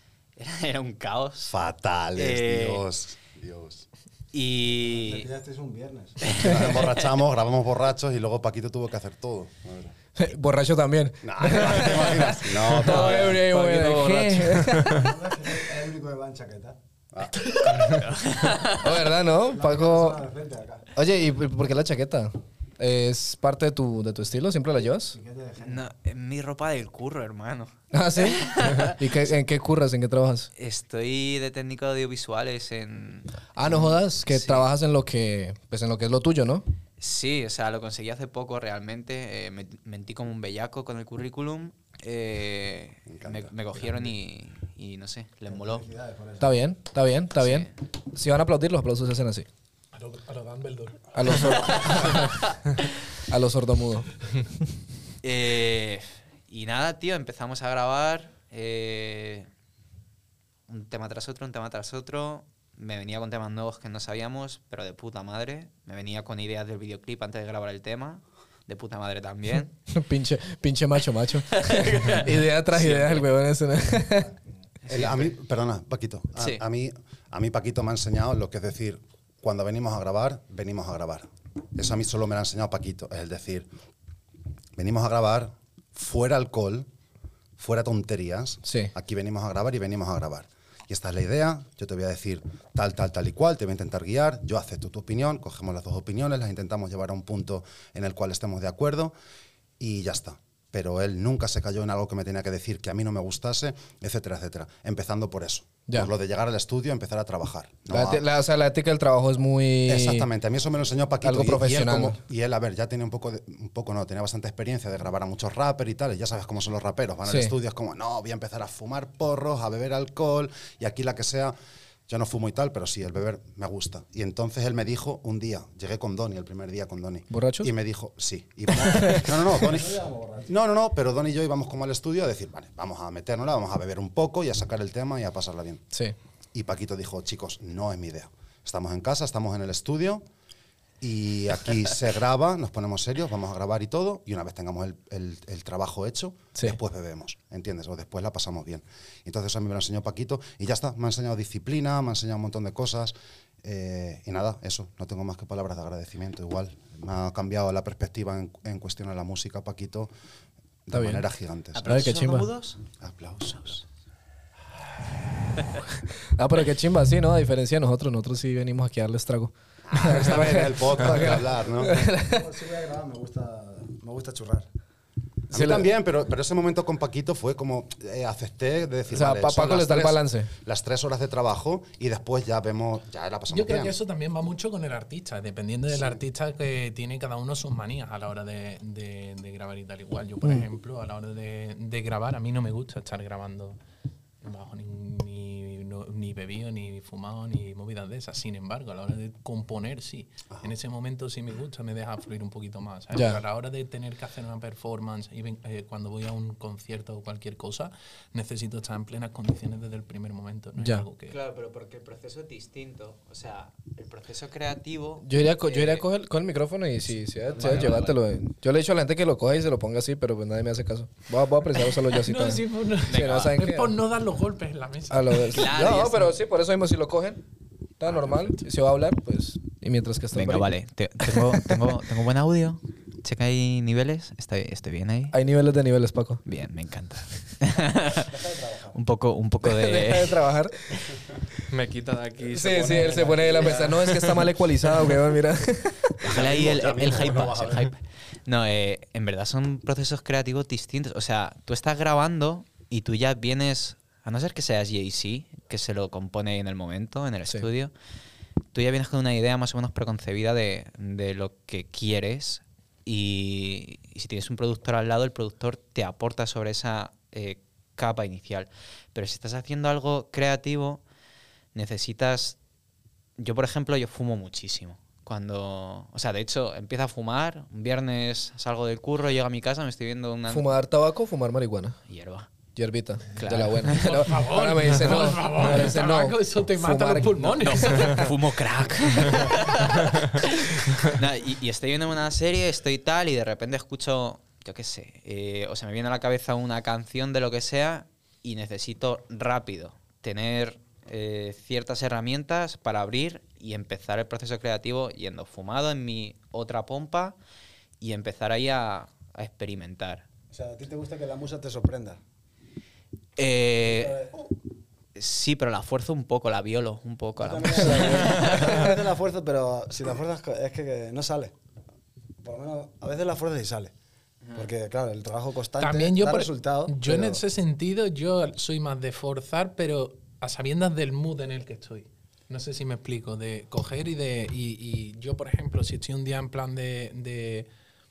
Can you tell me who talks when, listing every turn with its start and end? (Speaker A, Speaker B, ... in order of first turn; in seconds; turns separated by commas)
Speaker A: 0.4-1.6, Speaker B: 1.5-3.9, Speaker A: 2.1-2.8, Speaker A: 4.3-5.3, Speaker C: 4.8-6.3, Speaker A: 6.2-7.1, Speaker B: 6.2-9.9, Speaker D: 10.2-15.1, Speaker B: 11.2-13.3, Speaker A: 11.8-13.2, Speaker E: 12.8-15.1, Speaker C: 14.8-16.8, Speaker B: 17.1-18.0, Speaker A: 17.6-19.0, Speaker D: 18.7-20.2, Speaker C: 19.5-20.9, Speaker D: 20.9-25.2, Speaker C: 25.1-25.8, Speaker A: 25.6-29.3, Speaker D: 27.9-30.5, Speaker A: 30.6-34.7, Speaker D: 33.6-36.6, Speaker A: 37.0-45.8, Speaker B: 43.1-43.5, Speaker C: 45.5-46.5, Speaker D: 46.4-49.5, Speaker A: 47.4-47.7, Speaker F: 49.9-51.5, Speaker D: 51.1-52.5, Speaker A: 51.4-52.8, Speaker D: 53.2-54.1, Speaker A: 55.2-59.5, Speaker A: 60.7-69.7, Speaker D: 69.9-74.3, Speaker A: 71.5-73.3, Speaker A: 74.8-75.3, Speaker B: 74.9-83.7, Speaker A: 76.3-76.6, Speaker B: 84.8-86.9, Speaker B: 87.6-99.1, Speaker D: 88.6-88.9, Speaker B: 99.8-108.2, Speaker D: 107.9-110.3, Speaker B: 109.8-121.5, Speaker D: 111.2-112.2, Speaker D: 117.2-117.5, Speaker B: 122.1-135.8, Speaker D: 127.3-127.7, Speaker D: 128.7-129.5, Speaker C: 129.7-130.5, Speaker B: 136.5-140.2, Speaker B: 141.0-160.1, Speaker B: 160.8-162.0, Speaker D: 160.9-161.2, Speaker A: 161.7-162.8, Speaker D: 161.8-162.5, Speaker B: 162.9-163.8, Speaker D: 166.3-172.5, Speaker B: 169.9-172.0, Speaker C: 171.7-174.7, Speaker D: 175.5-175.9, Speaker B: 175.5-184.0, Speaker D: 179.1-180.5, Speaker F: 183.5-193.8, Speaker F: 194.4-211.3, Speaker D: 203.1-203.4, Speaker D: 210.8-211.0, Speaker A: 211.3-216.1, Speaker D: 215.2-223.9, Speaker A: 217.5-218.2, Speaker F: 222.1-225.6, Speaker A: 223.1-223.6, Speaker D: 225.1-227.4, Speaker A: 225.4-226.3, Speaker D: 228.0-231.9, Speaker A: 230.3-235.3, Speaker D: 235.3-236.4, Speaker A: 236.4-238.3, Speaker C: 238.1-238.9, Speaker A: 238.9-240.4, Speaker D: 239.6-240.8, Speaker E: 241.7-244.4, Speaker D: 242.5-246.4, Speaker B: 246.2-247.8, Speaker A: 246.2-257.9, Speaker A: 258.7-271.0, Speaker A: 271.7-272.6, Speaker A: 273.4-280.7, Speaker D: 280.5-282.0, Speaker A: 282.1-282.5, Speaker D: 282.8-287.9, Speaker A: 283.4-284.3, Speaker F: 284.1-288.3, Speaker A: 287.6-307.4, Speaker A: 308.0-310.2, Speaker C: 310.5-312.2, Speaker A: 313.4-314.3, Speaker C: 313.9-314.3, Speaker A: 315.1-318.9, Speaker C: 317.4-321.5, Speaker C: 322.4-323.9, Speaker C: 324.5-327.4, Speaker F: 325.8-337.7